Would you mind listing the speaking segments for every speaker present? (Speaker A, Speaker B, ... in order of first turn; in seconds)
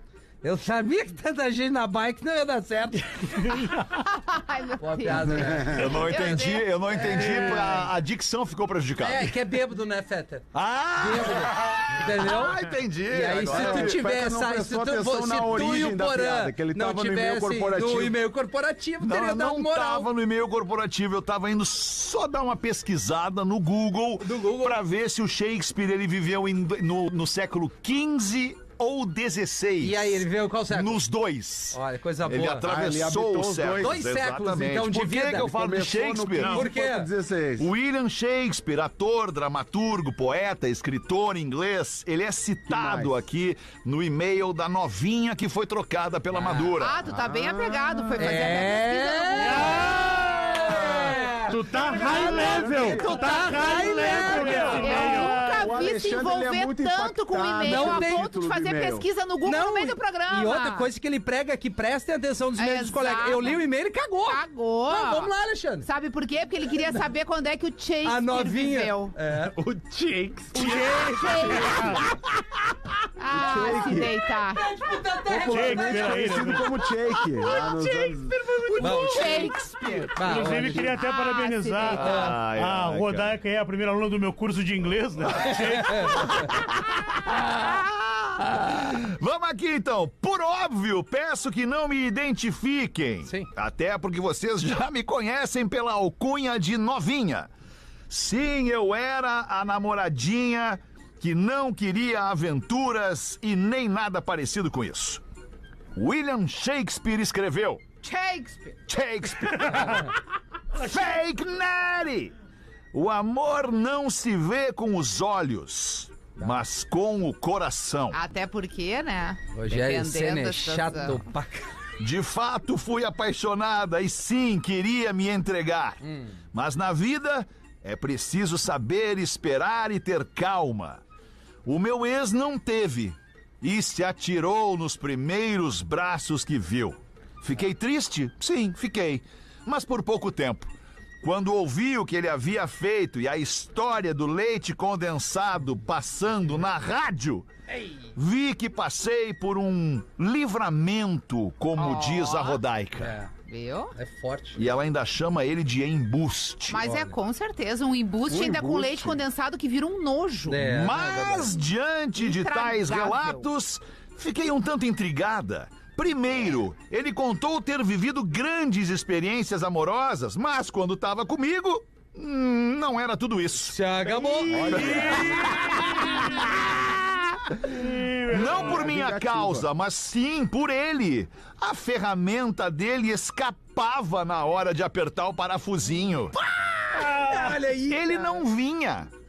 Speaker A: 0.4-3.8, 4.8-6.1, 7.1-7.8, 9.0-20.1, 24.2-24.8, 29.8-31.0, 31.7-32.6, 33.8-35.5, 36.5-37.1, 46.3-46.7, 48.2-55.1, 57.6-58.2, 59.4-65.9, 68.0-69.5, 71.1-71.9, 74.5-76.6, 77.3-80.9, 85.8-86.1, 119.5-121.8, 126.0-126.3, 153.0-153.3, 153.9-154.7, 160.5-161.6, 173.6-175.7, 186.9-188.4
Speaker B: 3.7-7.5, 46.8-50.0, 54.0-60.9, 62.5-63.6, 64.2-69.1, 70.5-71.9, 73.2-74.6, 78.8-80.2, 80.8-82.4, 108.0-108.8, 118.1-121.3, 151.8-152.6, 153.5-153.9, 156.7-160.7, 162.2-163.5
Speaker C: 5.2-6.0, 13.3-18.1, 32.6-34.0, 35.3-37.7, 42.7-43.1, 47.1-48.3, 51.9-59.1, 73.3-74.1, 75.2-78.4, 80.3-80.8, 158.3-159.2, 174.5-175.4, 178.3-179.7
Speaker D: 5.7-9.4, 10.5-14.0, 19.0-36.7, 37.6-47.0, 82.0-83.3, 86.3-97.5, 98.1-105.2, 105.9-107.8, 108.9-110.1, 110.7-112.3, 112.9-118.2, 122.0-131.0, 131.6-147.5, 148.1-153.2, 154.6-156.9, 160.6-173.8, 174.7-186.3, 187.8-189.1
Speaker E: 36.4-36.7, 51.5-53.8, 54.3-54.7, 69.5-71.7
Speaker F: 49.4-51.0, 51.5-55.7, 70.5-72.0, 75.4-76.7, 80.2-86.4, 174.1-176.2, 177.7-178.8, 187.0-187.7